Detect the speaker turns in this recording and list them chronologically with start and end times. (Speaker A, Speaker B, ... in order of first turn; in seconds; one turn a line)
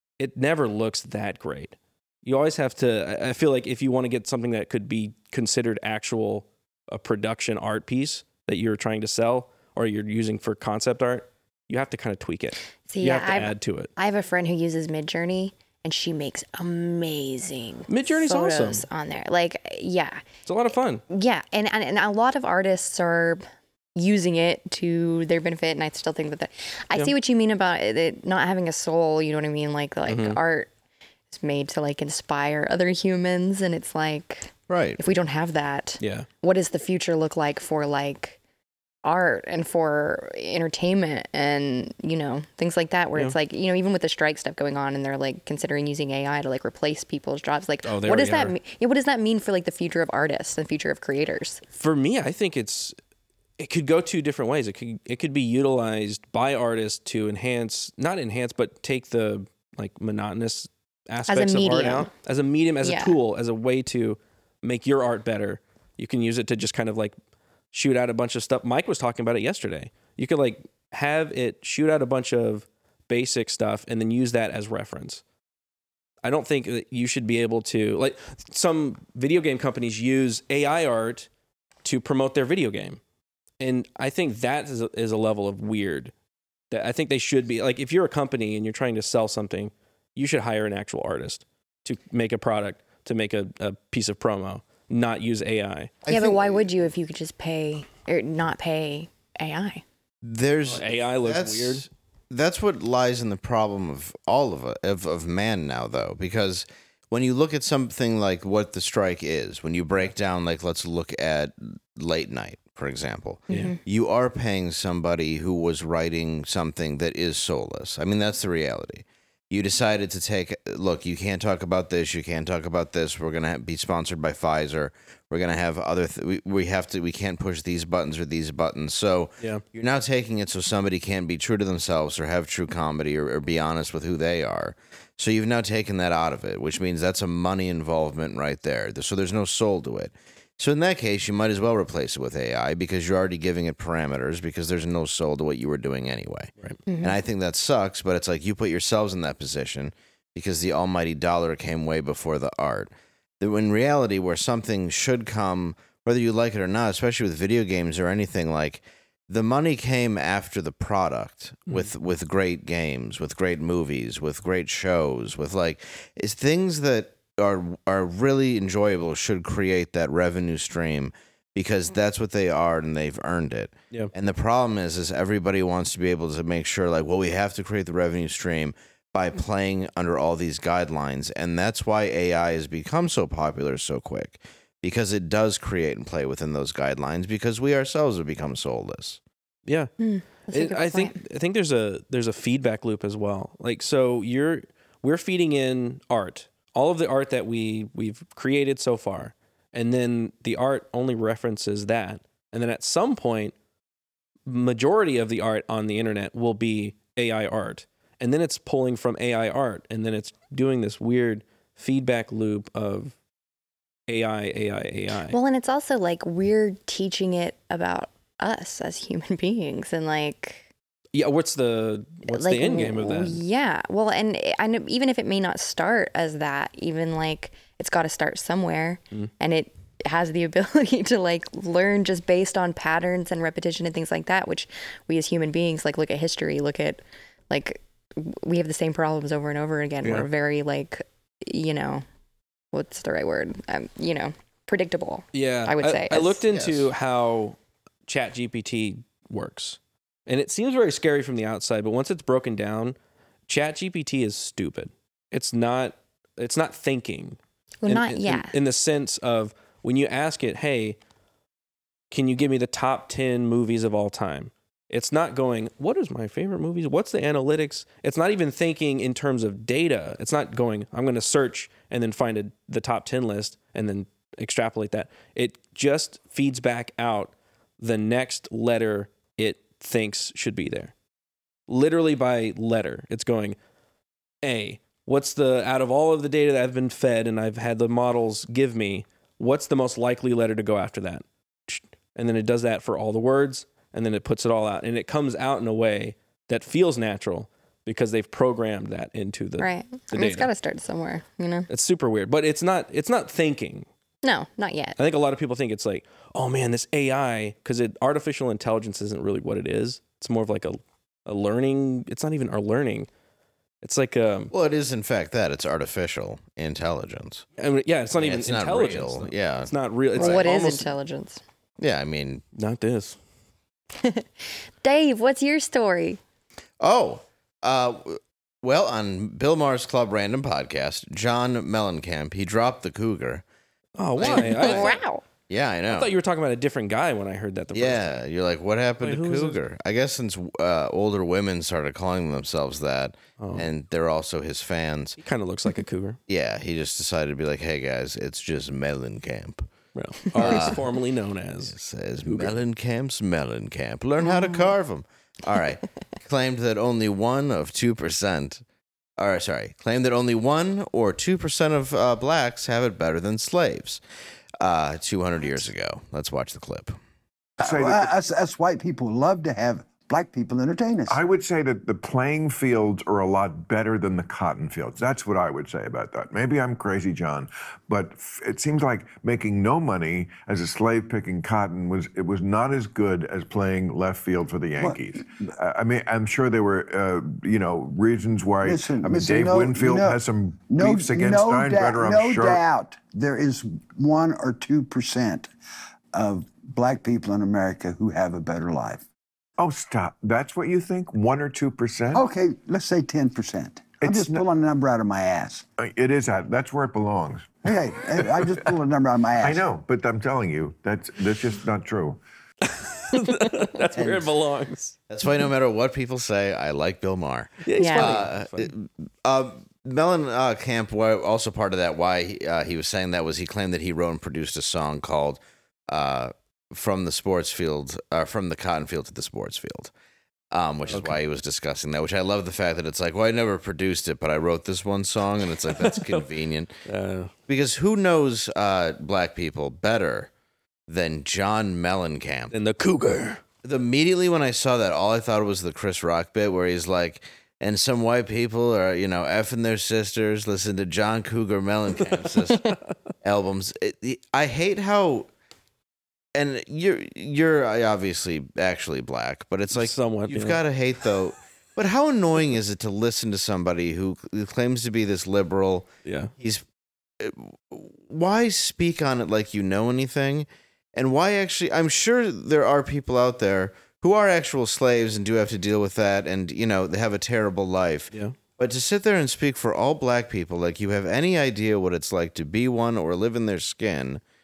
Speaker A: 0.2-13.9
Speaker B: 12.9-20.2
Speaker A: 17.9-18.9
Speaker A: 20.5-21.0
Speaker B: 21.1-23.4
Speaker B: 23.9-30.7
Speaker A: 30.1-30.4
Speaker B: 31.3-38.4
Speaker C: 34.7-35.0
Speaker A: 36.0-36.3
Speaker B: 39.0-51.6
Speaker A: 47.8-48.5
Speaker A: 51.7-53.0
Speaker A: 53.6-67.2
Speaker B: 61.3-62.1
Speaker B: 62.8-63.2
Speaker A: 67.7-75.2
Speaker A: 76.2-81.3
Speaker A: 81.8-83.0
Speaker A: 83.6-86.1
Speaker A: 86.7-96.0
Speaker C: 96.0-96.7
Speaker B: 96.1-99.8
Speaker C: 100.2-189.2
Speaker A: 100.7-101.9
Speaker A: 113.5-113.7
Speaker B: 113.5-113.8
Speaker B: 146.9-147.2
Speaker A: 189.7-189.9
Speaker B: 190.0-191.2
Speaker A: 190.5-203.5
Speaker A: 204.5-213.2
Speaker A: 214.1-215.4
Speaker B: 215.3-220.7
Speaker A: 221.1-223.4
Speaker B: 222.3-242.0
Speaker B: 242.7-246.4
Speaker A: 245.3-253.0
Speaker C: 246.5-246.9
Speaker A: 253.5-261.0
Speaker B: 257.8-258.5
Speaker A: 262.1-280.9
Speaker A: 281.7-283.6
Speaker A: 284.4-300.5
Speaker B: 299.6-301.7
Speaker A: 301.7-303.9
Speaker B: 304.2-305.0
Speaker A: 305.0-313.1
Speaker A: 313.8-314.5
Speaker C: 314.5-317.4
Speaker A: 317.6-320.9
Speaker C: 318.2-320.5
Speaker B: 320.2-321.4
Speaker C: 321.8-322.4
Speaker A: 322.6-323.2
Speaker B: 324.0-326.2
Speaker C: 326.8-333.4
Speaker A: 334.0-335.0
Speaker C: 334.2-334.9
Speaker B: 334.2-335.2
Speaker C: 335.5-336.1
Speaker A: 335.9-338.2
Speaker C: 337.7-345.2
Speaker A: 339.0-339.6
Speaker A: 343.4-343.7
Speaker A: 345.2-346.2
Speaker C: 346.3-349.7
Speaker A: 349.9-352.6
Speaker C: 350.4-350.8
Speaker C: 351.6-358.6
Speaker B: 354.2-354.7
Speaker C: 359.2-364.0
Speaker C: 364.6-367.0
Speaker D: 367.6-368.2
Speaker E: 367.6-371.2
Speaker D: 371.1-392.6
Speaker E: 384.8-385.5
Speaker E: 388.6-395.5
Speaker E: 396.1-399.0
Speaker D: 399.6-402.2
Speaker E: 402.1-405.7
Speaker D: 404.0-404.5
Speaker D: 405.8-408.8
Speaker E: 407.6-409.6
Speaker D: 409.4-412.2
Speaker A: 412.6-414.9
Speaker E: 414.0-414.3
Speaker C: 415.1-429.9
Speaker A: 417.6-418.7
Speaker B: 417.8-418.2
Speaker C: 430.5-436.7
Speaker A: 430.9-431.1
Speaker A: 435.6-436.3
Speaker A: 436.9-437.3
Speaker C: 437.5-440.3
Speaker C: 440.9-442.6
Speaker A: 442.5-443.4
Speaker C: 443.6-455.3
Speaker C: 456.4-466.6
Speaker A: 459.7-460.6
Speaker A: 466.1-466.3
Speaker C: 467.2-484.2